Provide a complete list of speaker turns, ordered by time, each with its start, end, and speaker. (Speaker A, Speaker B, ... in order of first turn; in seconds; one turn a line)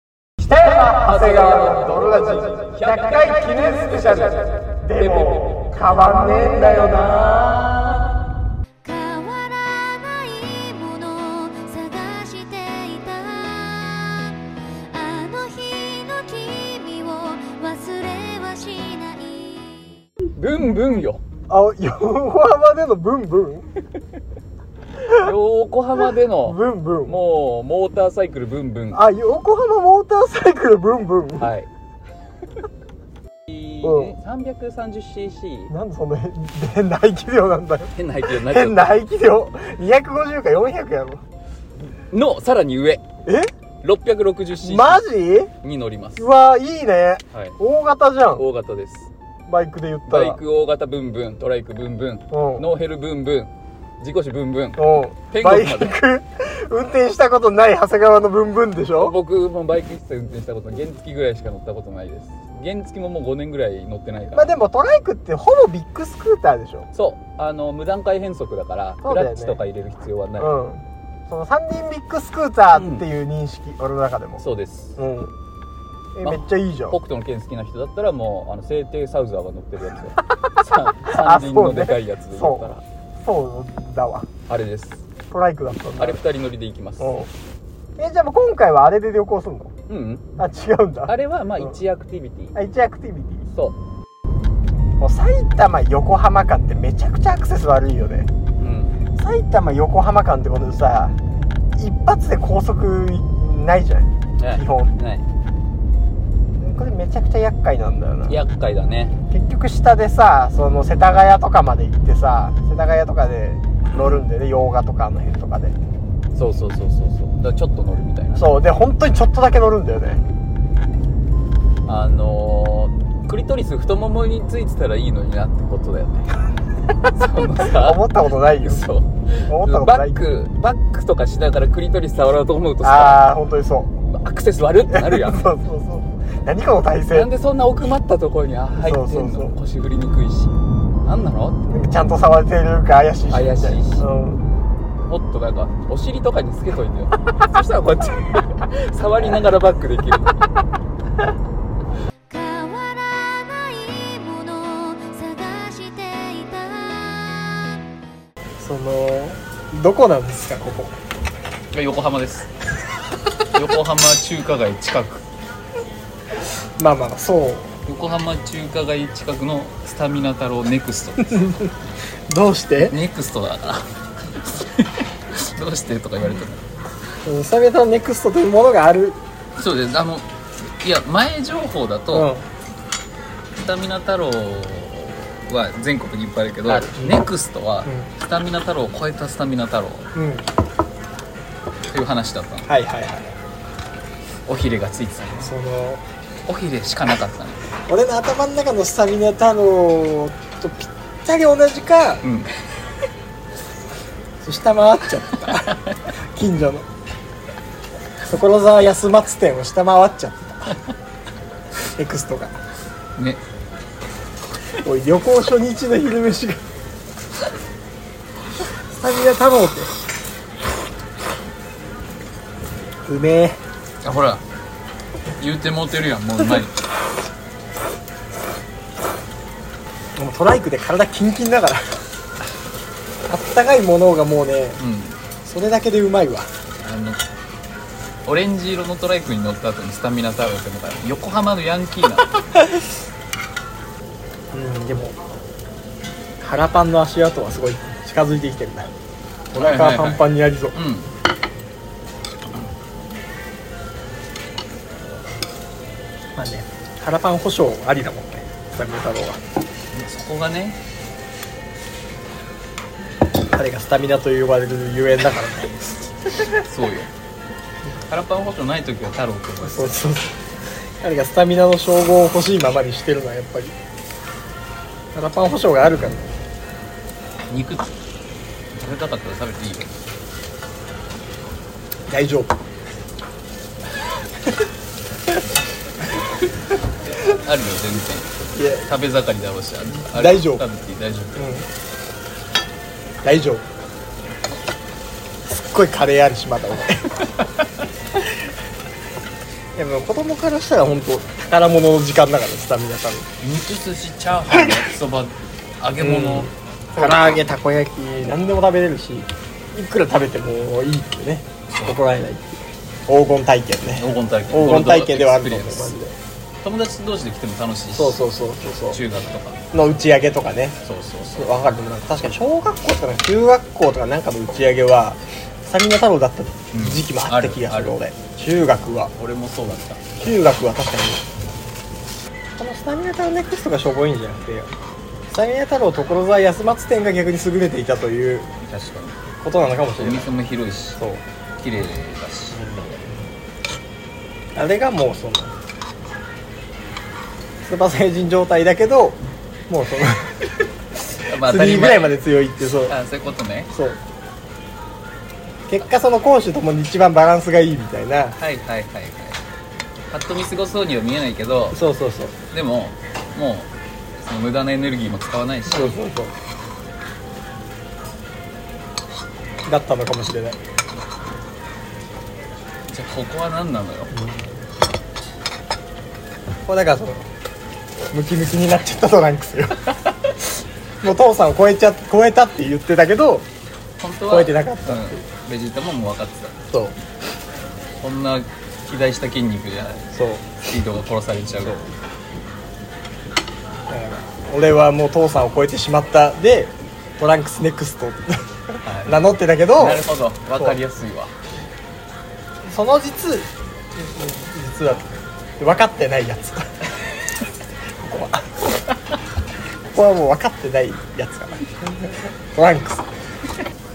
Speaker A: 0.4-7.8
Speaker B: 0.6-7.5
Speaker C: 8.8-14.3
Speaker C: 14.9-19.9
Speaker B: 20.4-21.2
Speaker A: 21.5-23.7
Speaker B: 25.1-29.0
Speaker A: 26.4-27.2
Speaker A: 28.9-31.5
Speaker B: 31.4-31.7
Speaker B: 33.5-35.7
Speaker A: 33.8-34.1
Speaker A: 35.7-41.2
Speaker B: 38.0-39.0
Speaker B: 41.9-43.0
Speaker A: 43.3-43.5
Speaker B: 43.8-45.0
Speaker A: 44.6-45.5
Speaker B: 45.6-46.3
Speaker A: 46.2-48.4
Speaker B: 48.4-49.1
Speaker A: 49.5-50.4
Speaker B: 50.1-56.0
Speaker A: 52.3-52.7
Speaker A: 54.8-59.2
Speaker B: 59.0-64.5
Speaker A: 64.3-66.9
Speaker B: 66.9-70.6
Speaker A: 69.0-69.6
Speaker A: 70.4-74.4
Speaker B: 72.7-73.0
Speaker B: 74.4-75.0
Speaker A: 75.0-75.3
Speaker A: 76.2-77.0
Speaker B: 76.2-82.8
Speaker A: 80.3-84.3
Speaker B: 84.5-85.0
Speaker A: 85.3-86.2
Speaker B: 86.0-87.2
Speaker A: 87.0-87.3
Speaker A: 88.0-89.7
Speaker B: 89.9-90.3
Speaker A: 90.4-91.7
Speaker B: 91.1-92.6
Speaker A: 92.5-93.5
Speaker A: 95.0-98.3
Speaker B: 98.6-99.0
Speaker A: 99.2-101.2
Speaker A: 101.8-105.0
Speaker B: 104.4-105.2
Speaker A: 106.6-108.4
Speaker B: 108.3-109.2
Speaker A: 109.3-115.8
Speaker B: 116.3-118.5
Speaker A: 118.3-120.2
Speaker B: 121.8-126.3
Speaker B: 127.0-128.1
Speaker A: 127.4-128.9
Speaker B: 128.6-133.3
Speaker A: 129.5-130.3
Speaker A: 132.8-133.9
Speaker B: 134.1-135.5
Speaker A: 134.9-137.3
Speaker B: 137.1-141.6
Speaker A: 138.8-139.5
Speaker A: 141.7-144.4
Speaker B: 143.3-144.1
Speaker B: 145.1-150.5
Speaker A: 149.2-149.4
Speaker C: 152.3-157.6
Speaker A: 158.6-161.0
Speaker B: 161.7-162.5
Speaker B: 163.5-165.2
Speaker A: 166.8-167.7
Speaker B: 167.9-171.5
Speaker A: 171.3-171.7
Speaker A: 172.3-173.0
Speaker B: 172.8-176.6
Speaker A: 177.2-179.2
Speaker B: 179.6-182.3
Speaker A: 182.1-182.4
Speaker B: 183.6-190.1
Speaker A: 186.7-187.3
Speaker A: 190.2-190.5
Speaker B: 191.9-192.7
Speaker A: 192.7-193.3
Speaker B: 194.5-195.5
Speaker A: 195.4-196.0
Speaker B: 196.5-197.7
Speaker A: 197.9-202.2
Speaker B: 202.2-202.6
Speaker A: 204.4-205.8
Speaker B: 205.5-205.8
Speaker A: 206.3-206.9
Speaker A: 208.2-210.8
Speaker A: 212.0-212.6
Speaker A: 214.8-216.6
Speaker A: 218.9-219.9
Speaker A: 223.1-223.6
Speaker B: 224.0-224.4
Speaker B: 225.4-226.7
Speaker A: 230.2-232.0
Speaker A: 233.3-234.8
Speaker B: 234.8-235.2
Speaker A: 235.4-236.5
Speaker B: 236.8-237.2
Speaker B: 238.3-242.4
Speaker A: 244.5-245.2
Speaker A: 246.4-248.9
Speaker A: 249.5-250.8
Speaker B: 249.5-251.1
Speaker A: 256.4-259.4
Speaker B: 259.9-260.8
Speaker A: 263.5-265.8
Speaker B: 266.5-267.1
Speaker B: 268.1-270.0
Speaker A: 269.6-270.4
Speaker A: 271.0-273.8
Speaker A: 275.1-276.3
Speaker B: 277.5-277.9
Speaker B: 278.8-279.9
Speaker A: 282.1-282.5
Speaker B: 287.1-288.3
Speaker A: 288.6-288.9
Speaker B: 288.9-291.5
Speaker A: 290.1-290.6
Speaker A: 291.4-291.7
Speaker A: 293.2-293.6
Speaker A: 295.5-297.1
Speaker A: 299.8-303.3
Speaker B: 303.4-307.4
Speaker A: 306.0-316.2
Speaker B: 314.0-316.0
Speaker B: 316.6-318.2
Speaker A: 317.9-319.0
Speaker B: 318.9-319.6
Speaker A: 319.7-329.1
Speaker B: 320.8-321.5
Speaker B: 326.7-328.0
Speaker B: 329.2-330.1
Speaker A: 330.2-331.2
Speaker A: 332.6-334.7
Speaker A: 335.3-338.5
Speaker B: 338.6-339.2
Speaker A: 339.4-340.3
Speaker B: 339.9-341.0
Speaker A: 341.0-341.2
Speaker B: 341.6-342.6
Speaker A: 342.5-343.3
Speaker A: 344.6-345.5
Speaker A: 347.6-350.4
Speaker B: 351.2-353.7
Speaker A: 351.4-353.0
Speaker A: 353.7-354.0
Speaker A: 355.7-358.4
Speaker B: 358.4-359.4
Speaker B: 360.1-361.8
Speaker A: 361.7-362.4
Speaker B: 362.5-366.0
Speaker A: 365.7-366.3
Speaker A: 369.7-370.6
Speaker B: 372.9-374.1
Speaker A: 374.1-374.6
Speaker A: 376.7-377.3
Speaker A: 378.1-379.9
Speaker A: 381.0-383.5
Speaker B: 384.0-386.7
Speaker A: 384.3-385.2
Speaker B: 388.0-390.1
Speaker A: 390.1-390.7
Speaker B: 390.6-391.8
Speaker A: 391.6-391.9
Speaker A: 393.9-400.8
Speaker B: 398.9-401.3
Speaker A: 402.7-406.8
Speaker A: 408.0-408.7
Speaker A: 409.9-413.1